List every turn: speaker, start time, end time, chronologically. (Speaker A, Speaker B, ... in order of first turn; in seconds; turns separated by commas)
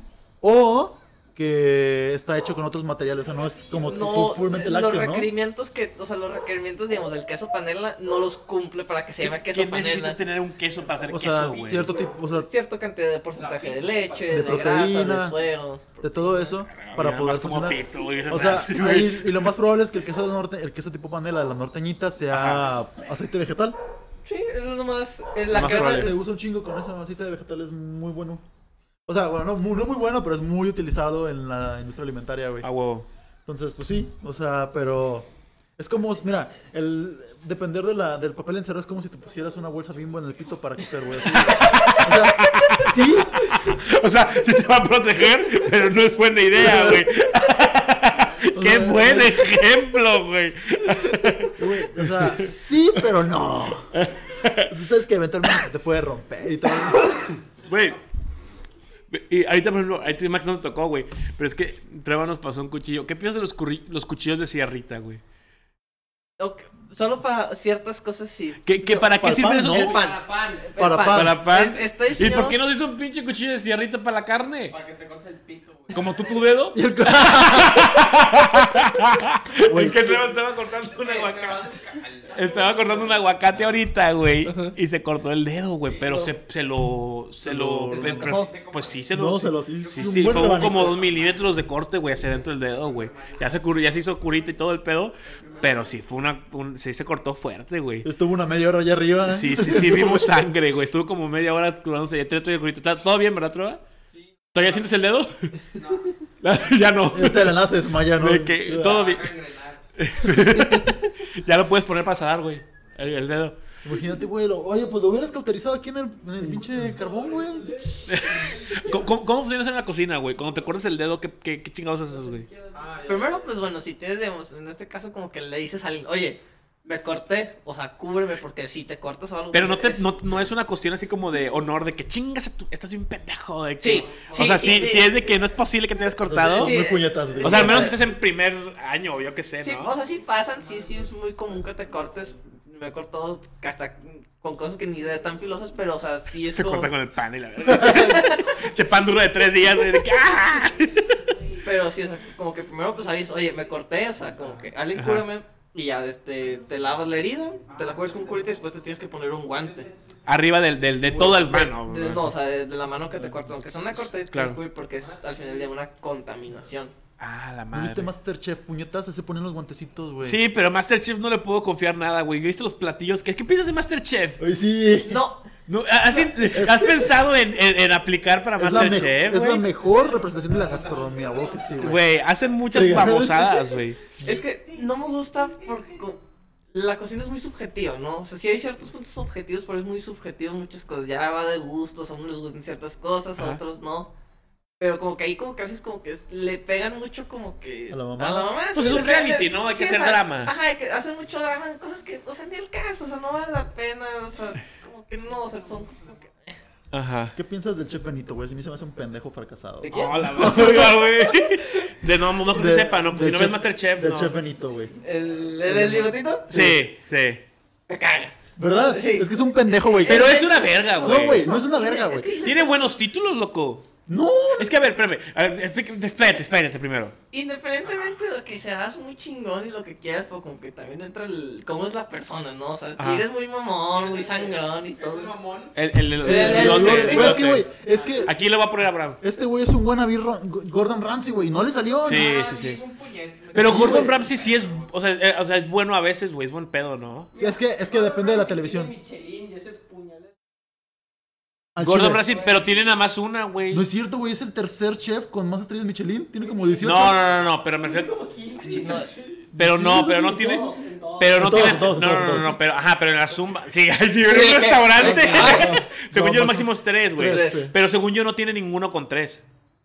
Speaker A: 0.4-5.3, Speaker B: 3.9-10.2, Speaker C: 9.2-11.9, Speaker A: 11.1-12.5, Speaker B: 12.3-16.5, Speaker D: 13.3-14.6, Speaker A: 14.3-15.4, Speaker A: 16.0-23.8, Speaker C: 16.6-19.5, Speaker C: 22.3-22.8, Speaker B: 24.2-26.2, Speaker A: 25.5-28.4, Speaker C: 25.5-26.1, Speaker A: 29.1-32.7, Speaker C: 32.6-33.1, Speaker A: 33.5-43.5, Speaker C: 41.2-52.5, Speaker A: 46.5-47.0, Speaker A: 48.5-49.5, Speaker A: 51.5-54.0, Speaker C: 53.9-54.8, Speaker A: 54.7-57.3, Speaker C: 56.9-58.0, Speaker C: 59.1-65.2, Speaker B: 66.4-69.0, Speaker C: 68.6-70.0, Speaker A: 68.8-70.0, Speaker B: 69.6-72.6, Speaker E: 70.0-70.7, Speaker A: 70.8-71.4, Speaker C: 71.1-74.7, Speaker D: 74.7-76.3, Speaker C: 75.9-81.7, Speaker A: 76.7-78.2, Speaker A: 79.6-80.2, Speaker D: 80.9-83.8, Speaker C: 82.3-98.1, Speaker B: 84.4-84.7, Speaker A: 87.4-88.4, Speaker B: 87.9-88.5, Speaker D: 88.2-89.1, Speaker A: 89.1-91.0, Speaker D: 89.8-91.6, Speaker D: 92.5-94.1, Speaker D: 95.2-96.0, Speaker A: 98.0-100.3, Speaker C: 99.2-103.8, Speaker D: 104.1-104.9, Speaker C: 104.5-105.5, Speaker D: 105.7-106.2, Speaker C: 106.4-109.3, Speaker A: 107.1-109.0, Speaker D: 108.7-109.8, Speaker C: 110.0-113.6, Speaker A: 113.8-118.0, Speaker D: 117.0-118.1, Speaker E: 117.7-119.0, Speaker C: 118.0-122.5, Speaker E: 122.1-123.1, Speaker D: 122.7-123.6, Speaker B: 123.0-130.1, Speaker C: 129.5-136.8, Speaker B: 133.8-135.2, Speaker D: 133.9-135.2, Speaker A: 136.2-138.0, Speaker B: 136.6-137.9, Speaker C: 137.4-139.9, Speaker B: 139.6-146.9, Speaker D: 140.5-142.3, Speaker C: 146.4-151.3, Speaker B: 147.7-148.6, Speaker E: 150.3-151.8, Speaker B: 151.6-159.9, Speaker D: 154.3-154.7, Speaker C: 154.9-155.3, Speaker D: 157.6-160.5, Speaker C: 160.2-162.3, Speaker A: 161.0-161.4, Speaker B: 161.1-166.9, Speaker A: 163.2-163.5, Speaker C: 164.3-164.6, Speaker D: 164.8-165.8, Speaker C: 167.2-168.1, Speaker A: 167.7-170.4, Speaker C: 170.2-174.4, Speaker A: 174.4-175.2, Speaker B: 175.1-175.5, Speaker C: 175.7-179.7, Speaker A: 176.3-177.2, Speaker A: 178.6-182.0, Speaker D: 179.8-182.2, Speaker C: 181.8-184.0, Speaker A: 182.7-184.4, Speaker B: 184.2-186.2, Speaker D: 184.3-186.0, Speaker B: 186.7-194.1, Speaker C: 193.4-193.6, Speaker B: 194.8-206.6, Speaker A: 197.9-198.6, Speaker C: 198.7-200.5, Speaker C: 206.9-207.3, Speaker A: 207.3-211.1, Speaker B: 209.8-210.9, Speaker C: 209.9-214.3, Speaker A: 212.5-215.0, Speaker B: 215.0-216.5, Speaker A: 215.6-216.8, Speaker C: 216.5-217.4, Speaker B: 217.9-219.3, Speaker A: 218.6-220.5, Speaker B: 219.8-222.8, Speaker C: 220.0-221.5, Speaker A: 221.0-222.4, Speaker C: 222.4-223.9, Speaker A: 224.1-224.7, Speaker C: 224.6-227.1, Speaker B: 227.3-235.3, Speaker C: 233.0-233.2, Speaker D: 233.9-235.8, Speaker C: 235.7-237.7, Speaker B: 236.2-237.4, Speaker A: 236.2-238.3, Speaker D: 236.6-238.3, Speaker C: 238.2-239.2, Speaker A: 239.2-242.3, Speaker D: 242.0-244.9, Speaker C: 242.0-242.8, Speaker A: 243.5-244.2, Speaker C: 243.5-247.3, Speaker E: 247.3-250.3, Speaker A: 247.3-248.9, Speaker A: 251.8-252.2, Speaker C: 251.8-253.8, Speaker E: 252.2-252.9, Speaker A: 253.7-257.3, Speaker E: 256.4-262.2, Speaker C: 256.8-269.5, Speaker B: 258.7-259.1, Speaker A: 259.5-260.6, Speaker A: 261.3-262.6, Speaker B: 264.2-265.8, Speaker A: 265.0-267.7, Speaker B: 267.2-267.7